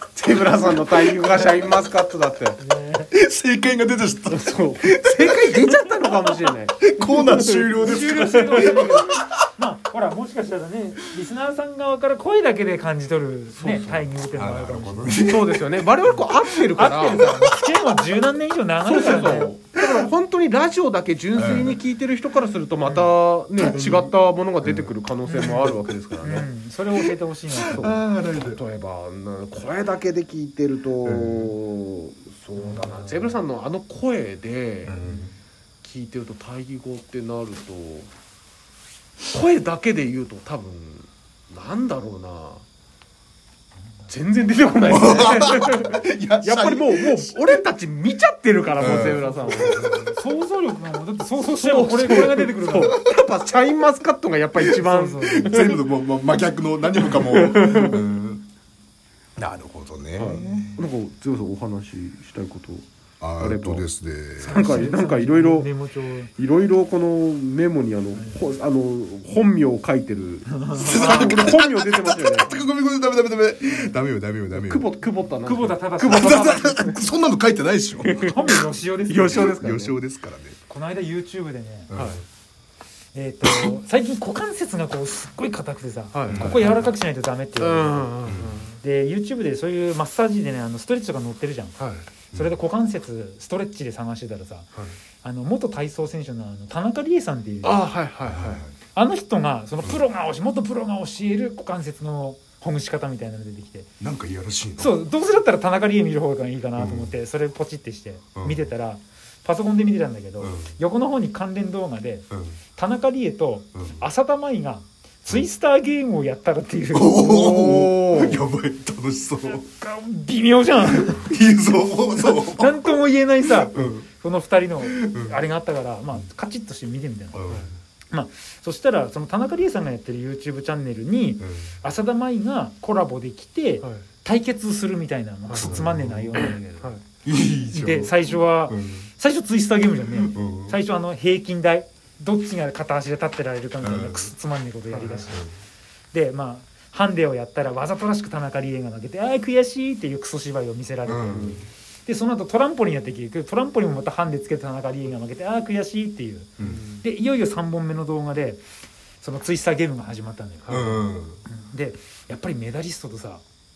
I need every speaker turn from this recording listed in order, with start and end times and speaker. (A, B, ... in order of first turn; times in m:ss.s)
0:00.2-0:02.6 A
0:02.6-0:03.1 B
0:03.1-0:09.3 C
0:04.3-0:08.9 A
0:07.8-0:15.3 B
0:13.6-0:14.1 A
0:14.3-0:15.7 C
0:15.0-0:17.3 A
0:16.1-0:19.5 B
0:18.8-0:26.5 A
0:21.3-0:21.8 C
0:22.8-0:23.1 B
0:23.6-0:24.9 C
0:25.3-0:27.9 B
0:27.5-0:28.6 C
0:27.8-0:35.0 A
0:31.0-0:31.5 C
0:32.6-0:33.3 B
0:34.9-0:35.3 C
0:35.8-0:38.1 A
0:39.3-0:42.6 A
0:44.1-0:49.9 A
0:44.9-0:47.4 C
0:48.8-0:50.0 C
0:49.2-0:53.0 B
0:51.5-0:55.8 A
0:54.6-0:55.7 B
0:55.2-0:58.4 C
0:57.0-0:58.0 A
0:59.4-1:00.8 C
1:00.2-1:02.9 A
1:03.2-1:04.6 C
1:03.4-1:03.9 A
1:04.4-1:05.7 A
1:04.4-1:06.3 B
1:06.4-1:12.6 A
1:10.5-1:11.2 B
1:10.8-1:14.9 C
1:14.5-1:17.0 A
1:15.4-1:16.8 B
1:16.1-1:18.2 C
1:18.0-1:20.0 A
1:18.2-1:19.6 B
1:19.3-1:20.6 C
1:20.7-1:21.9 B
1:21.9-1:22.2 C
1:21.9-1:22.2 A
1:23.1-1:28.1 B
1:26.1-1:26.8 A
1:26.3-1:26.7 C
1:27.6-1:28.8 A
1:28.3-1:28.5 C
1:28.8-1:31.8 B
1:31.8-1:32.1 A
1:32.3-1:34.7 B
1:35.2-1:37.9 B
1:37.6-1:38.6 A
1:38.3-1:38.7 C
1:38.9-1:43.9 B
1:44.0-1:45.0 C
1:44.8-1:57.2 B
1:46.8-1:47.1 C
1:48.4-1:48.7 C
1:50.4-1:50.7 C
1:52.3-1:52.6 C
1:56.9-1:59.6 C
1:57.2-1:58.4 A
1:59.5-2:01.3 B
2:00.9-2:02.9 C
2:02.2-2:07.4 B
2:03.6-2:04.0 C
2:04.8-2:05.4 C
2:07.3-2:07.7 C
2:08.1-2:17.0 B
2:15.5-2:15.8 A
2:15.6-2:16.5 C
2:16.4-2:17.0 A
2:17.2-2:19.1 C
2:17.7-2:25.4 B
2:20.2-2:20.8 C
2:23.8-2:24.3 C
2:24.9-2:25.3 A
2:26.1-2:36.5 B
2:31.1-2:31.6 C
2:31.2-2:31.6 A
2:36.6-2:37.0 A
2:37.0-2:38.6 B
2:39.2-2:43.4 B
2:40.6-2:40.9 A
2:40.7-2:41.4 C